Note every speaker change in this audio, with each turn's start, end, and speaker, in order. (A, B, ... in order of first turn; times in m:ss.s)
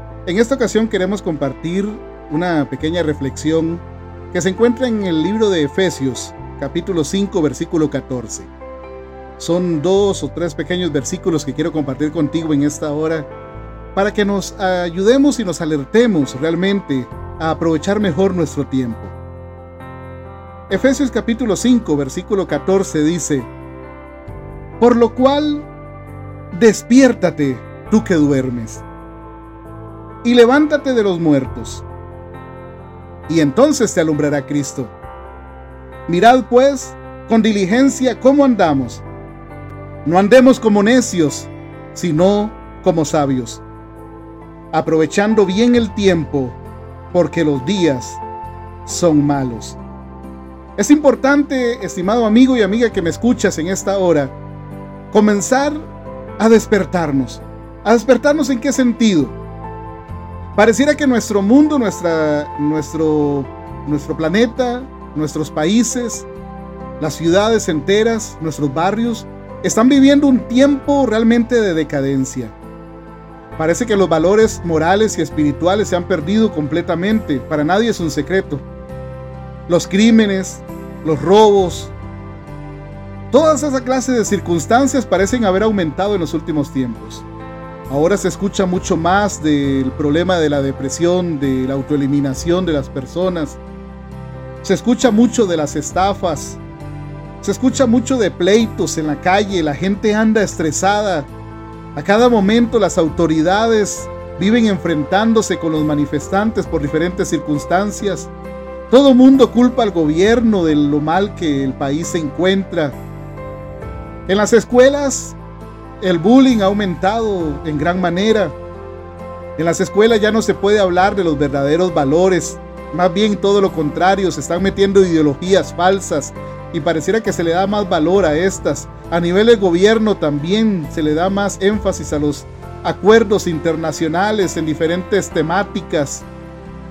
0:00.3-0:08.5 A
0:09.4-0:13.3 A
0:14.0-0:19.2 A
0:20.7-0:23.5 A
0:24.8-0:25.7 A
0:26.5-0:28.8 A
0:30.2-0:31.9 A
0:33.3-0:34.9 A
0:36.1-0:39.0 A
0:40.0-0:43.6 A
0:44.7-0:46.6 A
0:47.1-0:48.2 A
0:48.9-0:49.8 A
0:50.8-0:54.4 A
0:55.1-0:55.8 A
0:56.4-0:59.4 A
1:00.6-1:06.3 A
1:07.0-1:12.6 A
1:13.6-1:18.7 A
1:19.7-1:21.9 A
1:23.3-1:27.3 A
1:27.9-1:33.6 A
1:34.6-1:36.6 A
1:37.4-1:41.3 A
1:42.0-1:48.3 A
1:48.9-1:53.0 A
1:54.3-1:55.4 A
1:56.0-1:58.6 A
1:59.6-2:16.3 A